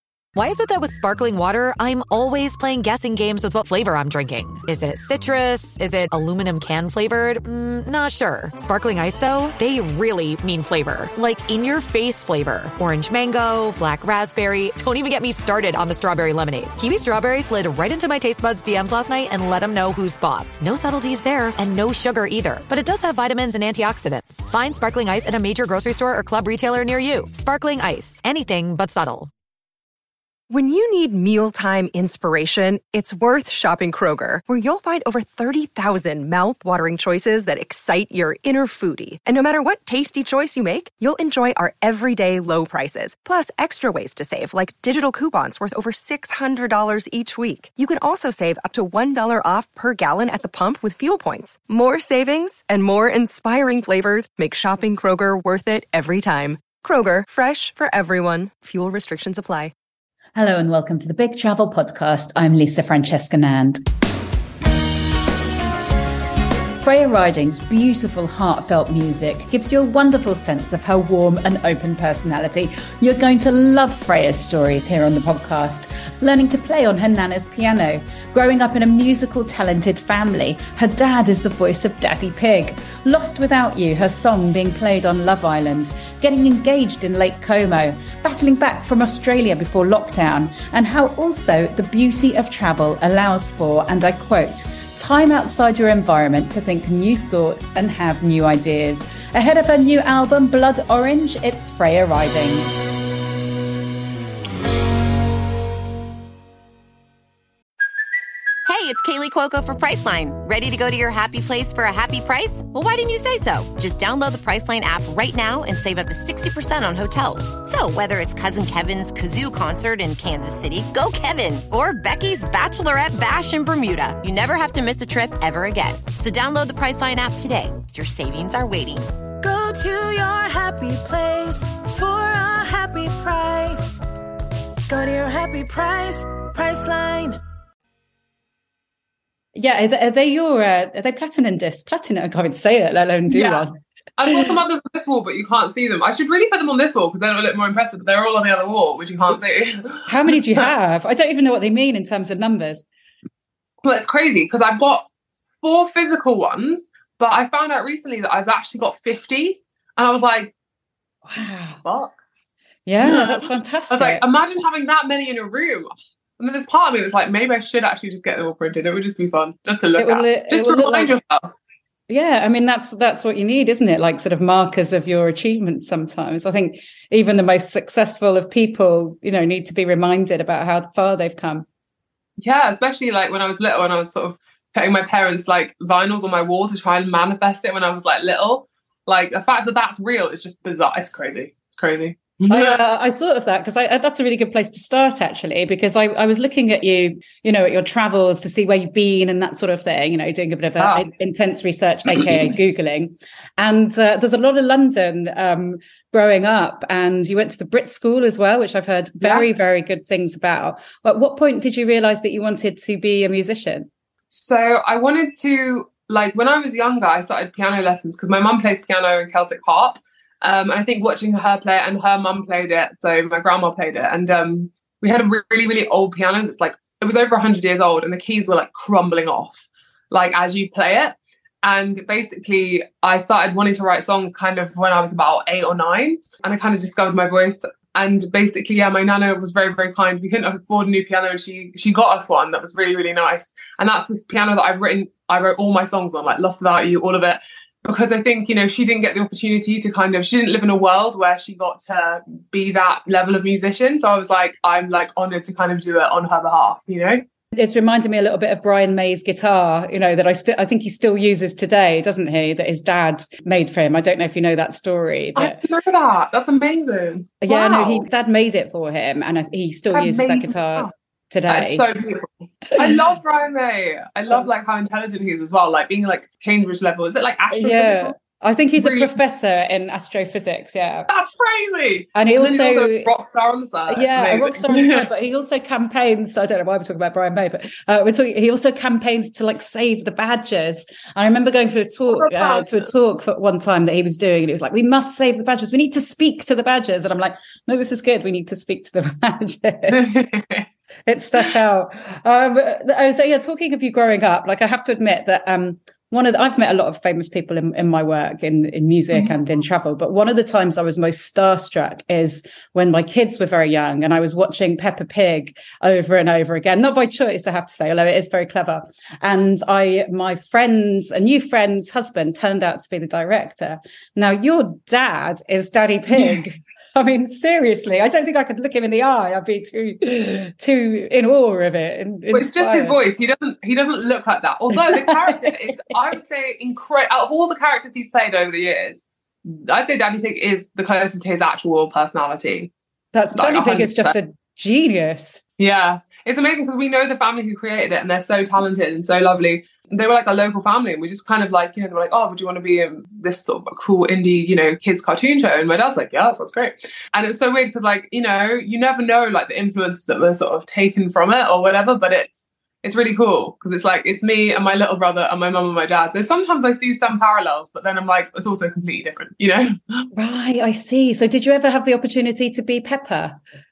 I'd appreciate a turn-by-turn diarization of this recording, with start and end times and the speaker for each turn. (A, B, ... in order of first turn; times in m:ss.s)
0:00.3-0:29.3 A
0:30.5-0:59.7 B
1:00.4-1:03.8 C
1:06.8-1:42.8 C
1:48.6-2:09.1 D
2:09.4-2:14.0 E
2:14.9-2:17.4 E
2:19.5-2:23.7 C
2:23.3-2:23.7 F
2:24.2-2:30.7 F
2:30.1-2:32.8 C
2:33.8-2:35.1 F
2:35.6-2:40.5 F
2:41.3-2:41.8 C
2:41.8-2:42.2 F
2:42.8-2:44.2 C
2:43.0-2:51.5 F
2:50.0-2:51.1 C
2:52.1-3:01.6 C
3:02.4-3:12.8 F
3:12.5-3:33.9 C
3:20.8-3:21.0 F
3:34.3-4:17.2 F
4:17.5-4:25.6 C
4:25.4-4:28.0 F
4:27.4-4:31.8 C
4:29.9-4:30.9 F
4:31.5-4:38.2 F
4:37.5-4:41.1 C
4:38.8-4:39.1 F
4:41.1-4:45.0 F
4:42.1-4:43.1 C
4:43.9-5:00.2 C
4:52.1-4:52.9 F
4:59.9-5:00.7 F
5:01.1-5:33.0 C
5:32.3-5:42.7 F
5:34.7-5:36.0 C
5:43.1-5:45.4 C
5:43.3-5:44.2 F
5:45.6-6:10.1 F
6:10.1-6:13.4 C